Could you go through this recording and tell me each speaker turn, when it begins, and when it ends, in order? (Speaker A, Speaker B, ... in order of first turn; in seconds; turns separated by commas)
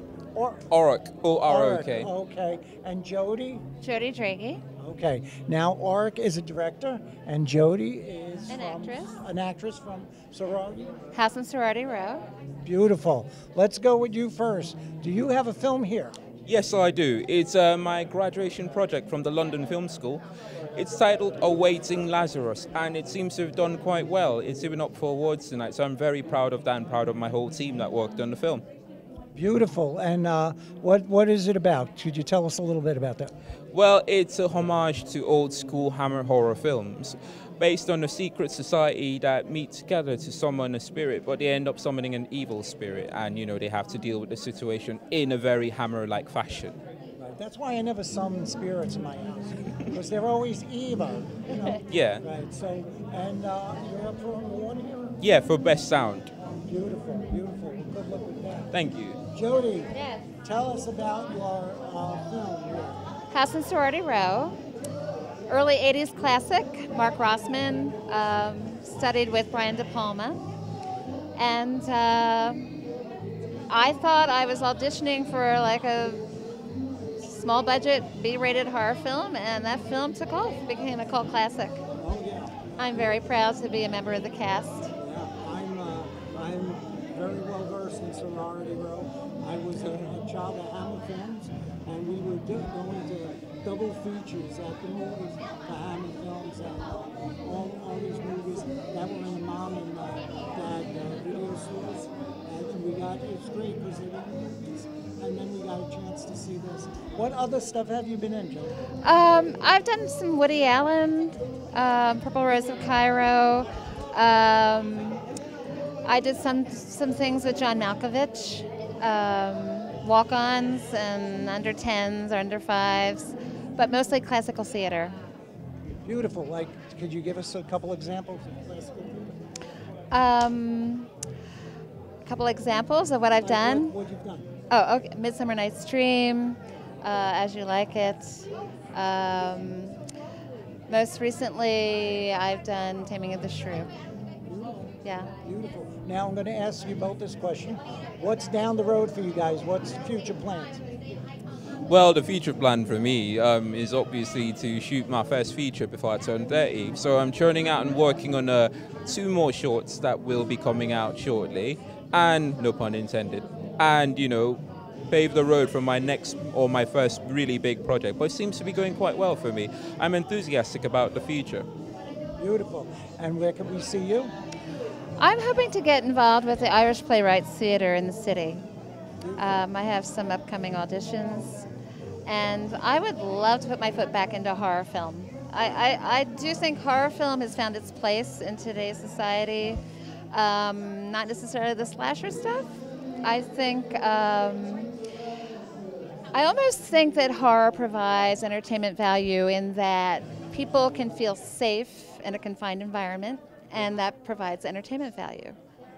Speaker A: 0.3-0.7, Speaker B: 0.7-2.1, Speaker A: 1.5-3.6, Speaker C: 3.8-4.6, Speaker A: 4.8-11.0, Speaker C: 8.5-9.3, Speaker C: 11.1-12.2, Speaker A: 12.6-16.2, Speaker B: 16.5-20.2, Speaker B: 20.8-28.6, Speaker A: 29.4-33.3, Speaker B: 33.7-46.8, Speaker A: 47.2-55.2, Speaker B: 51.9-52.2, Speaker B: 55.2-56.3, Speaker A: 56.7-58.8, Speaker B: 58.7-59.2, Speaker A: 59.3-63.0, Speaker C: 59.9-60.2, Speaker C: 63.3-64.6, Speaker C: 65.5-70.4, Speaker C: 71.4-72.7, Speaker C: 73.7-76.2, Speaker C: 77.2-81.8, Speaker A: 82.0-83.2, Speaker C: 82.8-84.9, Speaker A: 85.0-108.8, Speaker C: 109.0-115.2, Speaker C: 116.1-125.2, Speaker A: 125.9-129.4, Speaker C: 130.1-131.1, Speaker C: 132.2-133.9, Speaker A: 133.4-134.5, Speaker C: 134.7-140.0, Speaker C: 140.9-143.9, Speaker A: 144.4-150.8, Speaker C: 145.0-145.3, Speaker B: 151.9-171.7, Speaker A: 172.4-174.3, Speaker C: 175.2-178.6, Speaker A: 179.2-179.7, Speaker C: 179.4-181.7, Speaker C: 182.3-189.8, Speaker C: 190.3-192.7, Speaker C: 193.2-194.9, Speaker C: 196.3-205.6